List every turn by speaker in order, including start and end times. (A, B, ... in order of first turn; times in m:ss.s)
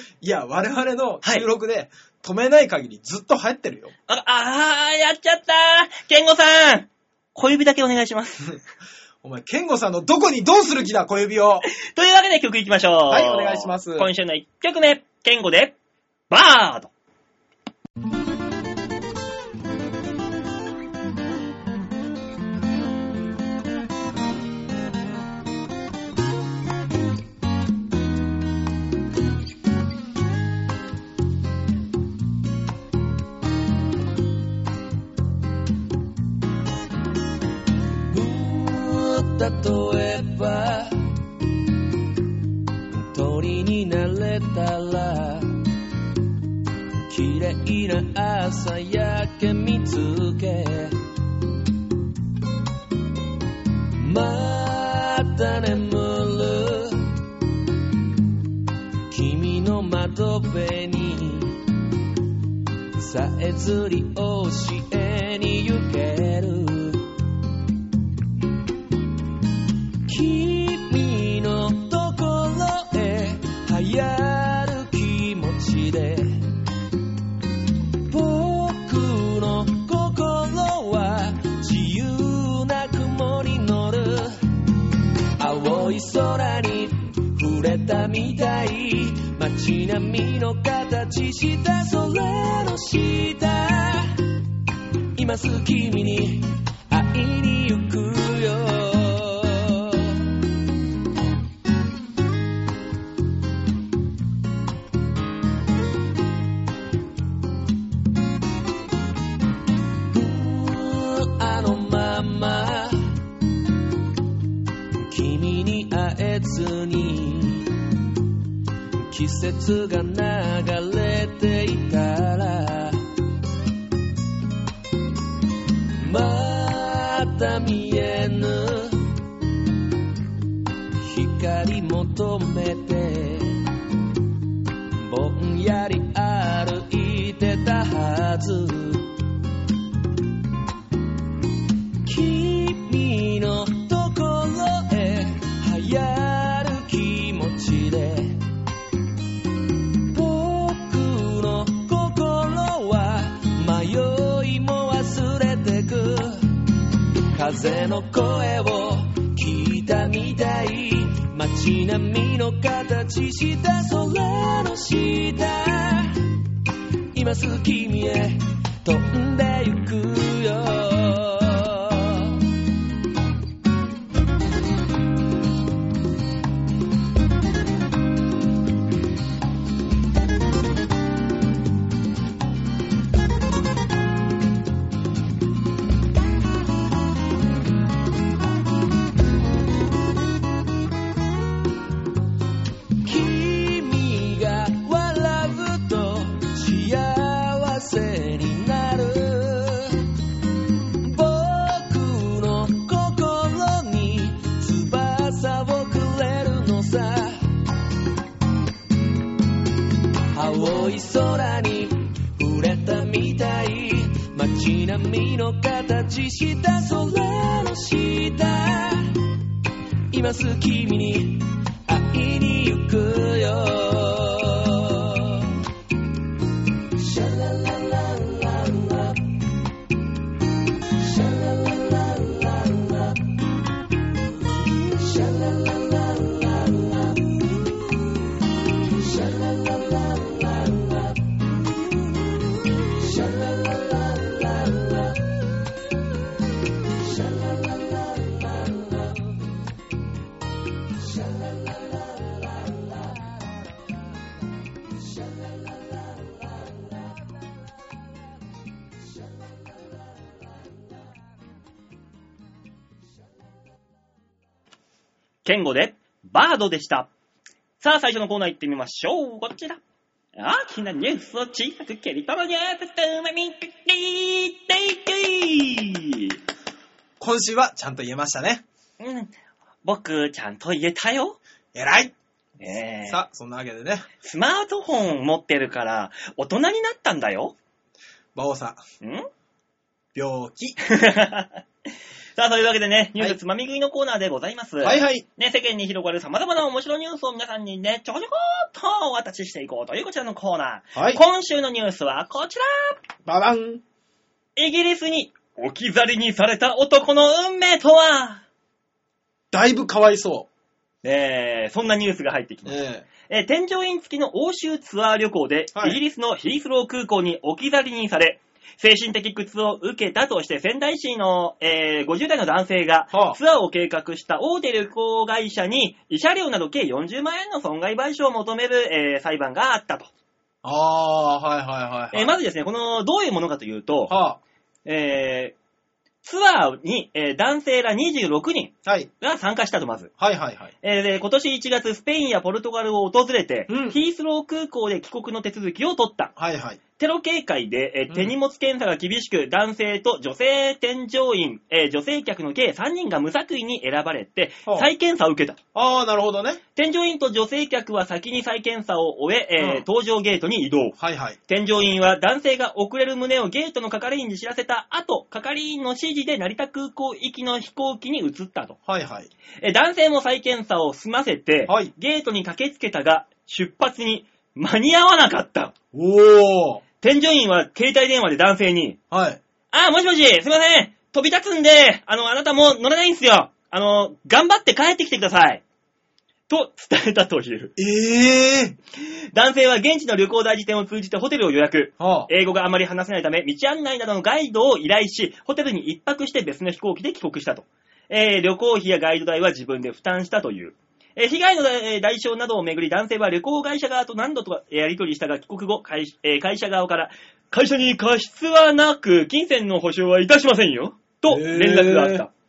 0:00.2-0:03.9 A
0:04.1-0:08.5 B
0:09.2-0:11.7 A
0:11.7-0:15.7 B
0:13.1-0:14.1 A
0:16.3-0:16.9 B
0:38.1-0:41.1 C
0:42.9-0:45.6 C
0:47.1-0:51.0 C
0:54.0-0:57.2 C
0:59.1-1:01.6 C
1:03.0-1:07.1 C
1:10.0-1:16.5 C
1:18.1-1:24.4 C
1:25.4-1:34.2 C
1:35.1-1:40.3 C
1:50.1-1:53.2 C
1:55.0-1:57.8 C
1:59.0-2:03.0 C
2:06.0-2:09.1 C
2:11.0-2:13.7 C
2:15.0-2:19.1 C
2:22.0-2:28.4 C
2:30.1-2:36.6 C
2:37.3-2:46.3 C
2:47.1-2:52.4 C
3:13.0-3:20.1 C
3:21.0-3:27.5 C
3:30.3-3:39.2 C
3:40.1-3:45.6 C
3:47.0-3:49.2 C
3:51.0-3:53.2 C
3:54.9-3:57.4 C
3:59.0-4:01.2 C
4:02.9-4:05.2 C
4:07.4-4:09.3 C
4:11.8-4:13.1 C
4:25.4-4:27.1 B
4:27.8-4:29.8 B
4:30.4-4:36.4 B
4:37.2-4:38.6 A
4:39.0-4:39.3 B
4:39.8-4:41.4 B
4:41.7-4:42.1 A
4:42.6-4:43.2 B
4:43.0-4:44.1 A
4:44.2-4:47.5 B
4:48.3-4:48.8 A
4:49.0-4:49.3 B
4:50.1-4:50.8 A
4:50.8-4:51.6 B
4:52.4-5:03.0 B
4:54.8-4:55.2 A
5:00.9-5:01.2 A
5:03.2-5:03.8 A
5:04.6-5:08.4 B
5:09.5-5:10.5 A
5:11.0-5:30.1 B
5:12.6-5:13.0 A
5:15.7-5:16.0 A
5:23.1-5:23.4 A
5:30.6-5:32.3 A
5:32.1-5:34.2 B
5:34.1-5:34.4 A
5:34.8-5:35.5 B
5:36.2-5:40.1 B
5:40.2-5:40.7 A
5:40.8-5:46.3 B
5:43.7-5:44.0 A
5:46.4-5:46.8 A
5:47.0-5:55.6 B
5:55.7-5:56.6 A
5:56.8-6:01.0 B
5:59.6-5:59.8 A
6:01.0-6:01.4 A
6:01.5-6:08.8 B
6:08.9-6:09.3 A
6:09.6-6:15.7 B
6:11.7-6:11.9 A
6:15.9-6:16.8 A
6:17.0-6:19.0 B
6:19.1-6:19.4 A
6:19.7-6:25.6 B
6:26.5-6:27.7 B
6:27.8-6:28.8 A
6:29.0-6:52.3 B
6:32.0-6:32.3 A
6:51.3-6:52.2 A